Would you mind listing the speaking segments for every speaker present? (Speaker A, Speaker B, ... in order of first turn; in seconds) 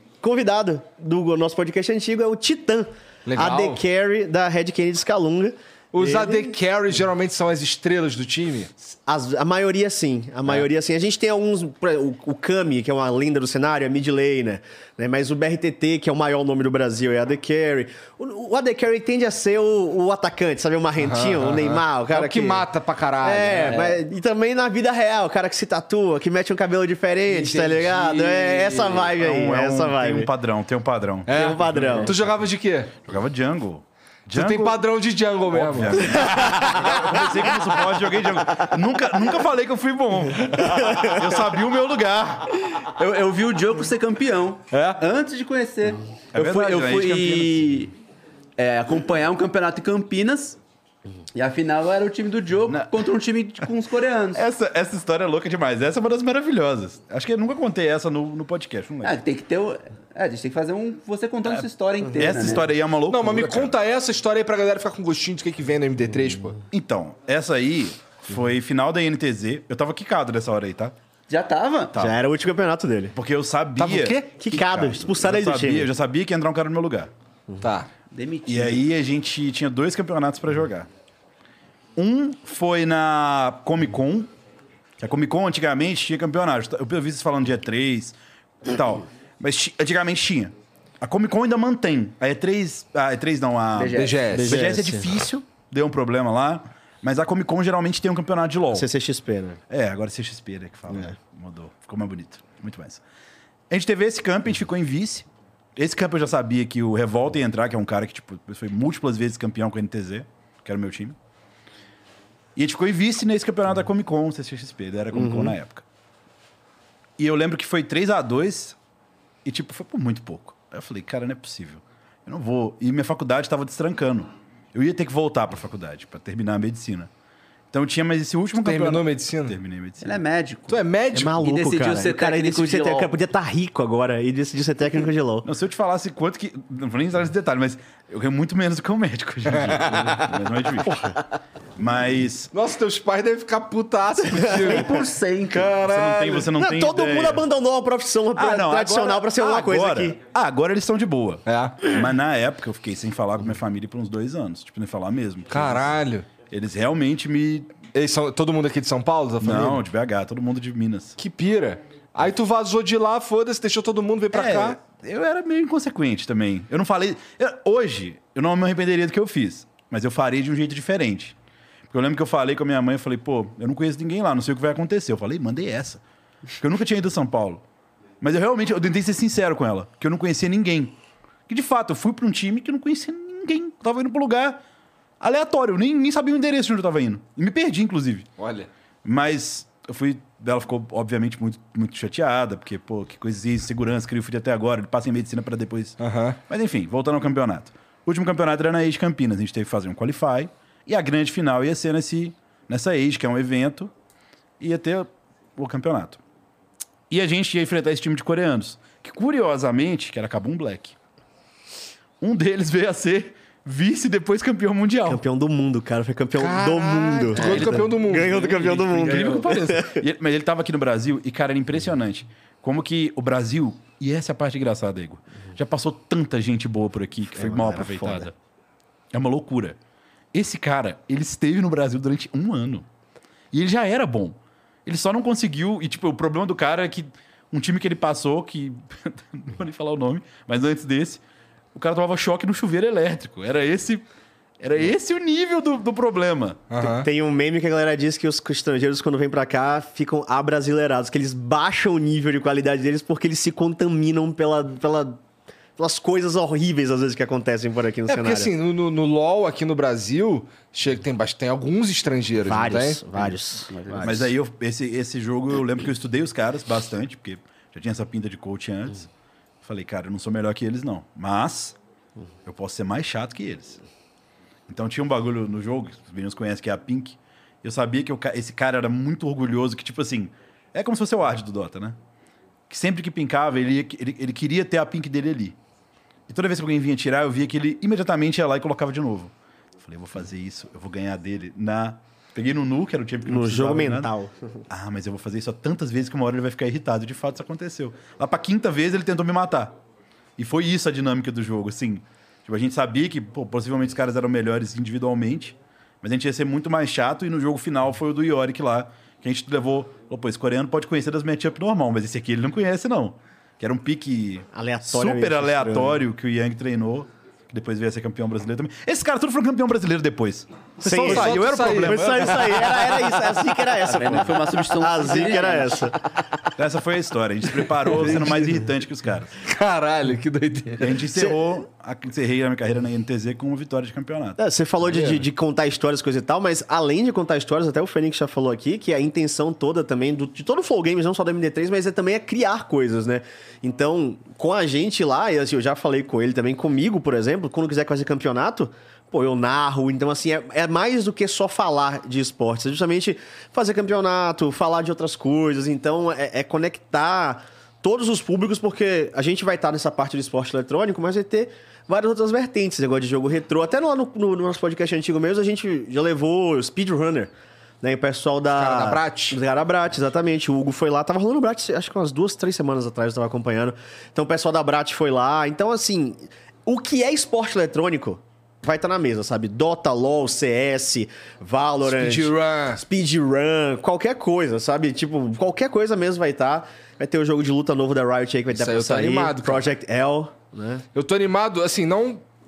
Speaker A: 0.2-6.5, 8.8-22.7, 23.2-30.3, 31.3-32.1, 72.0-73.1, 74.3-75.9, 94.3-95.1, 98.7-99.6, 115.1-115.5, 131.1-135.5, 144.3-145.0, 146.6-150.2, 215.1-220.0, 227.3-228.3, 246.8-255.2, 255.8-258.5, 262.4-264.3, 293.3-294.4, 314.5-316.0, 320.8-326.0, 328.0-328.5, 334.4-367.3, 367.8-390.8
Speaker B: 3.3-3.8, 5.9-8.7, 21.0-23.9, 27.3-29.1, 31.3-33.0, 34.3-36.2, 44.7-45.0, 63.1-66.6, 73.8-74.4, 77.6-77.9, 93.9-94.6, 128.6-129.6, 130.7-131.4, 139.6-140.2, 142.5-146.5, 151.5-151.9, 155.5-156.3, 157.9-159.8, 161.2-164.8, 188.4-188.7, 196.0-196.4, 216.4-219.6, 246.7-247.1, 258.1-263.3, 321.0-323.6, 329.4-331.0, 334.9-335.2, 368.5-369.4, 381.8-382.8, 388.5-389.7, 390.9-392.2
Speaker C: 29.2-32.4, 33.0-34.8, 35.5-42.5, 46.3-47.7, 54.4-59.2, 62.2-63.7, 66.7-71.0, 73.1-77.1, 78.5-80.9, 82.0-84.3, 85.0-98.9, 99.7-103.0, 103.7-111.2, 112.5-115.8, 117.2-118.8, 119.5-127.1, 127.7-130.2, 135.4-141.2, 141.8-142.5, 145.8-147.5, 148.3-157.8, 159.4-161.2, 164.3-171.4, 171.9-176.0, 176.6-177.6, 178.2-181.0, 181.5-184.6, 185.2-188.3, 189.0-196.0, 196.5-203.9, 204.6-206.2, 207.1-211.0, 212.2-215.2, 219.0-228.3, 229.1-229.8, 230.3-232.9, 233.5-241.2, 241.7-244.1, 244.6-246.7, 264.0-269.1, 269.6-271.8, 272.4-273.8, 274.7-282.0, 282.7-285.6, 286.3-294.1, 294.7-299.8, 300.4-322.7, 326.6-329.3, 330.8-334.4
Speaker D: 42.9-47.9, 48.6-50.6, 51.3-54.4, 59.0-62.7, 71.3-72.0, 78.1-78.8, 93.7-94.3, 130.0-133.1, 144.6-145.8, 263.7-264.1, 323.9-325.9